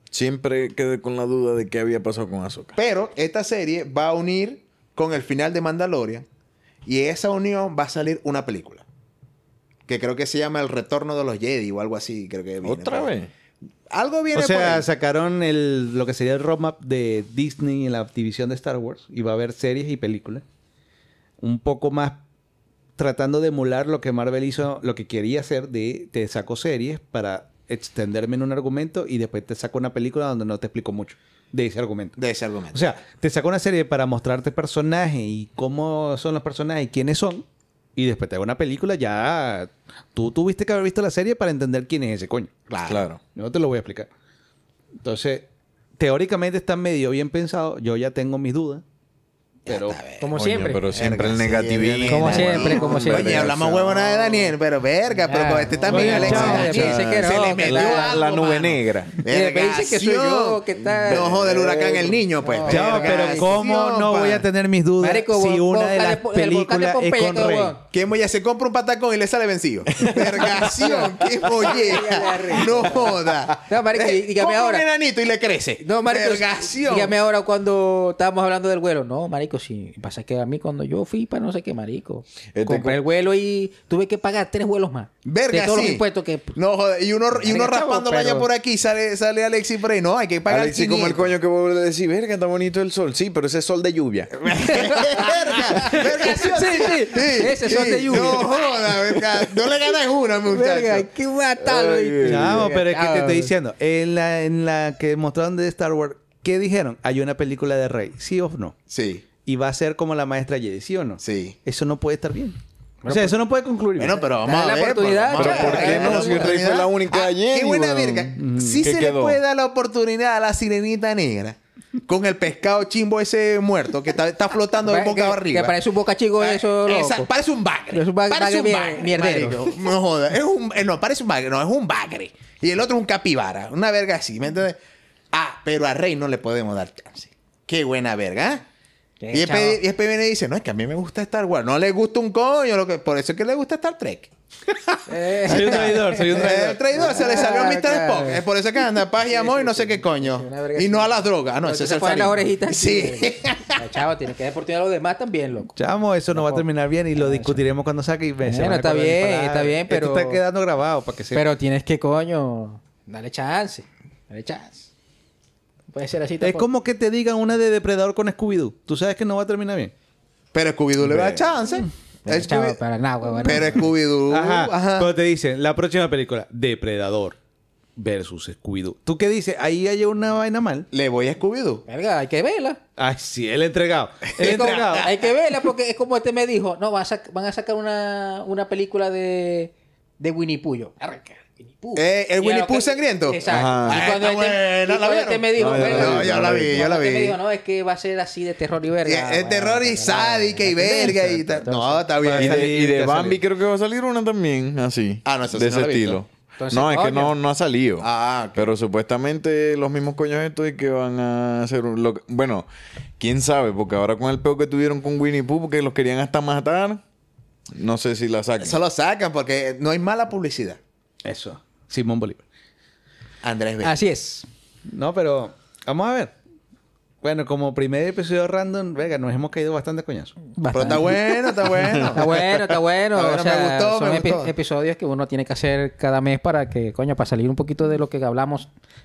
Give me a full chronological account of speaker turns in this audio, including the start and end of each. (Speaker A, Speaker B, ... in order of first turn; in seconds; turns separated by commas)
Speaker A: 0.1-2.8, Speaker B: 2.8-6.2, Speaker B: 6.8-8.8, Speaker B: 9.9-13.1, Speaker A: 12.6-13.3, Speaker B: 13.9-14.8, Speaker C: 14.3-20.4, Speaker C: 21.4-22.2, Speaker C: 23.0-32.2, Speaker B: 32.2-32.8, Speaker C: 32.7-37.5, Speaker C: 38.0-42.5, Speaker B: 42.7-43.0, Speaker A: 42.9-43.2, Speaker C: 43.4-44.1, Speaker C: 45.0-45.5, Speaker C: 46.0-48.8, Speaker C: 49.7-50.0, Speaker B: 49.7-50.4, Speaker D: 50.2-50.9, Speaker A: 50.4-54.5, Speaker B: 50.9-64.4, Speaker D: 52.1-53.5, Speaker C: 52.3-52.7, Speaker D: 55.3-58.4, Speaker C: 55.9-56.9, Speaker A: 56.1-59.2, Speaker D: 59.3-63.5, Speaker A: 60.9-62.2, Speaker C: 62.7-67.8, Speaker D: 65.0-67.8, Speaker B: 67.9-77.2, Speaker A: 70.0-71.1, Speaker D: 71.6-73.1, Speaker D: 73.7-74.8, Speaker D: 75.8-86.5, Speaker A: 82.5-83.0, Speaker B: 85.2-86.0, Speaker B: 86.5-91.3, Speaker D: 87.4-88.5, Speaker A: 90.5-95.3, Speaker B: 94.4-101.1, Speaker D: 94.6-95.2, Speaker D: 95.8-98.6, Speaker D: 100.5-103.5, Speaker A: 101.6-102.7, Speaker C: 102.2-108.7, Speaker B: 108.9-109.2, Speaker C: 109.5-114.2, Speaker B: 111.2-111.5, Speaker D: 113.0-113.4, Speaker B: 114.0-125.8, Speaker D: 114.4-116.6, Speaker A: 115.3-119.4, Speaker C: 118.4-119.0, Speaker D: 124.8-127.3, Speaker B: 126.4-134.8, Speaker D: 127.9-129.8, Speaker B: 135.3-138.6, Speaker D: 139.2-139.8, Speaker B: 139.3-144.3, Speaker B: 144.9-153.9, Speaker D: 145.1-148.4, Speaker C: 145.4-147.2, Speaker D: 149.3-155.7, Speaker C: 155.8-161.4, Speaker D: 156.3-156.6, Speaker D: 157.2-157.6, Speaker D: 158.4-160.4, Speaker D: 161.3-164.9, Speaker D: 165.9-166.7, Speaker C: 166.4-169.9, Speaker B: 170.5-172.8, Speaker D: 172.3-173.9, Speaker B: 173.3-175.1, Speaker C: 174.3-177.4, Speaker C: 177.9-180.9, Speaker B: 180.9-181.9, Speaker D: 181.9-182.8, Speaker C: 183.0-185.2, Speaker D: 184.4-202.2, Speaker B: 184.5-185.0, Speaker B: 191.9-197.4, Speaker A: 193.5-194.1, Speaker A: 195.6-196.9, Speaker B: 199.0-202.7, Speaker C: 202.2-203.4, Speaker A: 202.4-212.7, Speaker B: 205.2-206.2, Speaker D: 206.6-207.3, Speaker B: 208.0-208.7, Speaker A: 213.2-217.0, Speaker A: 217.7-218.8, Speaker B: 218.6-220.8, Speaker C: 221.2-222.4, Speaker B: 223.4-224.0, Speaker D: 223.8-224.5, Speaker C: 224.9-226.3, Speaker C: 227.2-230.4, Speaker D: 230.6-231.4, Speaker B: 230.7-232.4, Speaker D: 232.1-238.7, Speaker B: 233.1-234.5